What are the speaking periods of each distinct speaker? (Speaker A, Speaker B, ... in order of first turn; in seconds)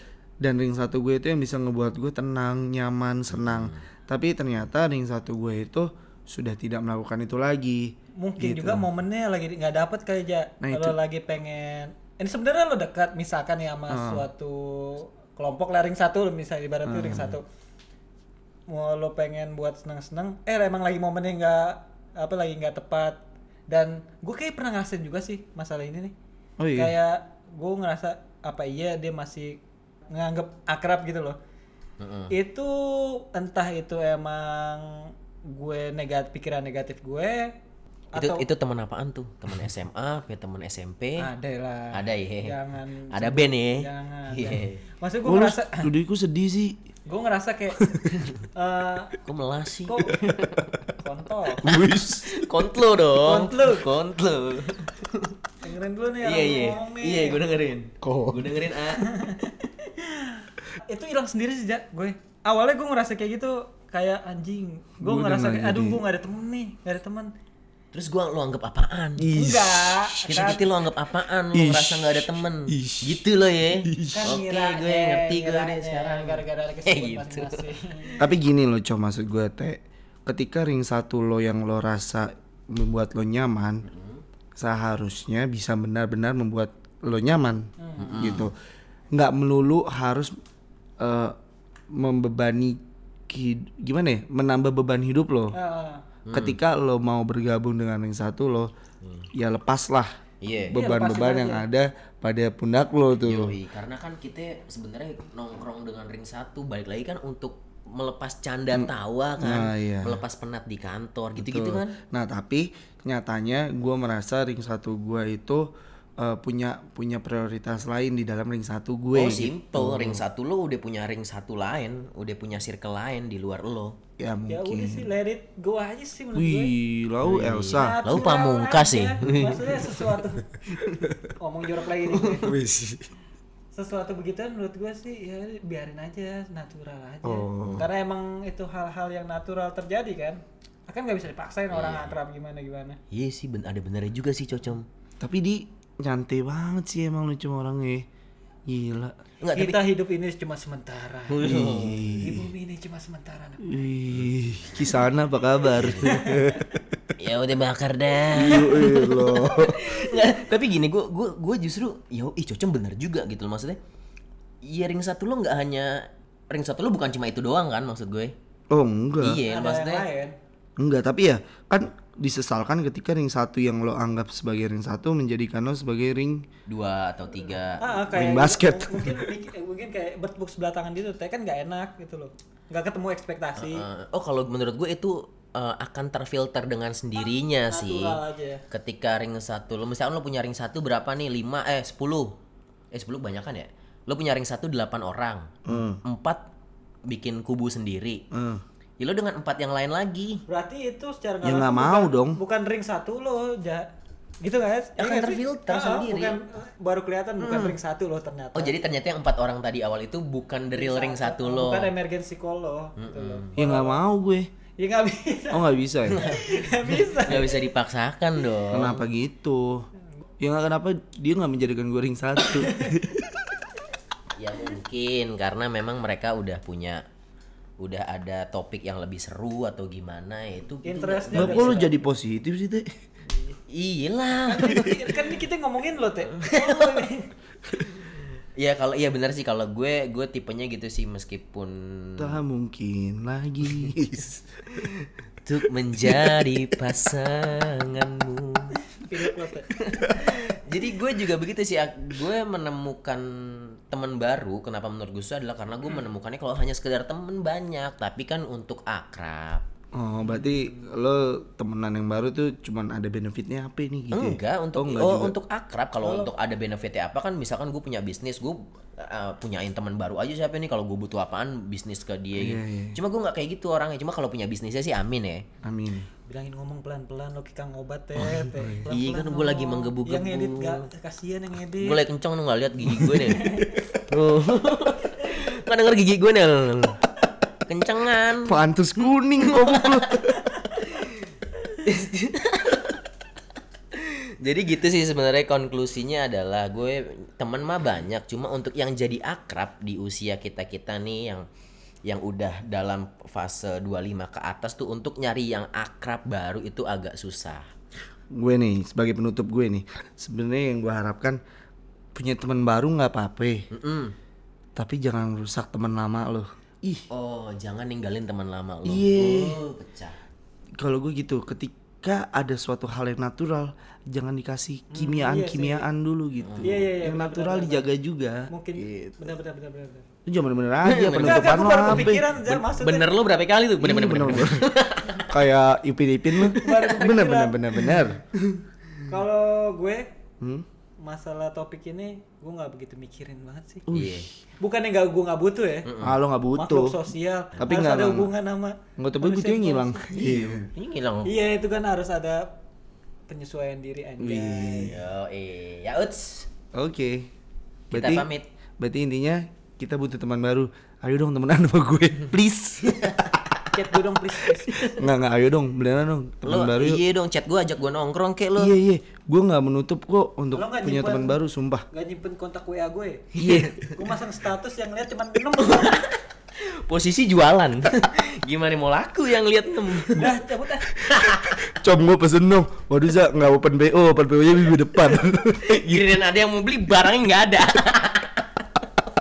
Speaker A: 0.4-8.8, 10.6-11.0, 13.9-14.2, 16.9-17.4, 26.6-26.9, 45.2-46.8, 47.8-48.2, 51.6-52.5, 58.0-58.5, 65.0-66.0, 69.2-70.6, 71.5-73.2, 73.8-74.3, 78.2-83.8, 84.5-88.5, 89.1-90.3, 91.0-91.4, 91.9-95.5, 96.3-98.7, 99.3-100.2, 100.7-103.5, 108.7-110.2, 111.4-115.7, 116.2-120.2, 124.2-125.1, 126.3-128.0, 129.2-129.8, 130.8-131.3, 132.4-133.1, 137.2-137.9, 145.2-148.1, 148.7-149.2, 151.4-152.5, 153.6-156.9, 158.3-159.8, 168.7-169.4, 170.8-176.4, 178.1-179.3, 195.6-196.0, 198.3-198.6, 201.4-202.4, 213.6-214.5, 215.5-216.2, 218.7-219.9, 220.4-223.5, 231.3-233.0, 242.2-244.9, 246.0-246.4, 259.9-265.3, 272.4-273.0, 275.6-276.1, 282.9-283.2, 288.4-290.5, 308.3-311.4, 312.1-313.7, 314.8-317.1, 318.8-319.6, 320.8-328.5, 330.2-332.2, 333.8-334.6, 335.3-338.6, 340.4-340.6, 343.9-344.3, 346.0-347.0, 347.6-348.3, 349.0-350.7, 354.2-354.9, 356.7-357.3, 357.9-358.3, 358.8-363.6, 364.8-367.0, 368.6-371.8, 373.4-373.7, 381.0-386.0
Speaker B: 3.3-3.8, 32.0-32.3, 38.1-41.3, 41.9-42.6, 43.1-44.8, 49.2-50.7, 51.6-55.4, 56.2-59.1, 67.9-69.3, 70.3-78.2, 83.8-84.2, 88.0-88.5, 96.2-96.6, 99.0-99.3, 100.4-100.8, 103.2-112.0, 119.1-124.0, 127.2-130.0, 141.7-142.2, 143.1-144.8, 149.4-149.8, 151.3-152.2, 155.8-156.2, 157.2-163.8, 164.6-168.3, 169.2-170.1, 176.7-178.1, 183.6-188.2, 188.7-192.3, 192.9-196.4, 197.1-198.2, 199.0-200.4, 205.0-206.4, 207.4-207.8, 208.5-211.9, 213.0-213.6, 216.1-219.0, 224.3-227.0, 227.8-231.9, 233.7-235.3, 236.3-237.1, 238.6-242.4, 245.4-248.8, 249.7-259.6, 264.1-275.4, 278.9-280.9, 281.8-287.0, 287.7-288.5, 289.4-293.0, 293.9-301.5, 302.1-307.7, 313.7-314.1, 317.1-320.2, 326.4-326.8, 330.8-335.3, 343.9-344.3, 345.8-346.2, 350.1-351.4, 354.8-356.5, 357.9-358.5, 362.8-363.4, 364.7-365.0, 366.4-368.7, 373.4-374.1, 375.6-380.4, 381.0-381.6, 385.6-388.7
Speaker C: 8.2-17.4, 18.7-26.1, 26.8-29.6, 30.1-31.4, 32.3-37.5, 38.1-38.4, 41.2-45.9, 47.0-47.9, 48.5-49.2, 49.9-50.2, 51.0-51.6, 53.2-53.9, 55.6-57.4, 58.9-67.3, 69.3-70.6, 74.1-78.2, 87.8-88.4, 95.5-96.0, 100.7-101.6, 124.5-126.8, 127.7-130.4, 131.3-132.6, 133.7-143.0, 149.5-151.5, 152.2-153.8, 156.0-156.6, 169.5-170.3, 177.8-183.8, 187.7-188.6, 200.5-203.9, 204.4-208.7, 210.7-214.0, 214.8-217.6, 222.6-222.9, 230.8-231.9, 233.2-233.6, 234.5-237.3, 248.9-249.7, 260.3-260.9, 266.0-266.3, 276.3-282.0, 283.4-283.8, 324.9-325.9, 326.6-327.9, 328.5-330.1, 331.2-333.2, 336.5-338.0, 339.1-340.1, 341.0-343.8, 344.6-345.9, 346.6-350.0, 351.2-352.5, 353.3-355.0, 363.7-364.9, 370.5-371.4, 371.9-376.1, 380.1-381.0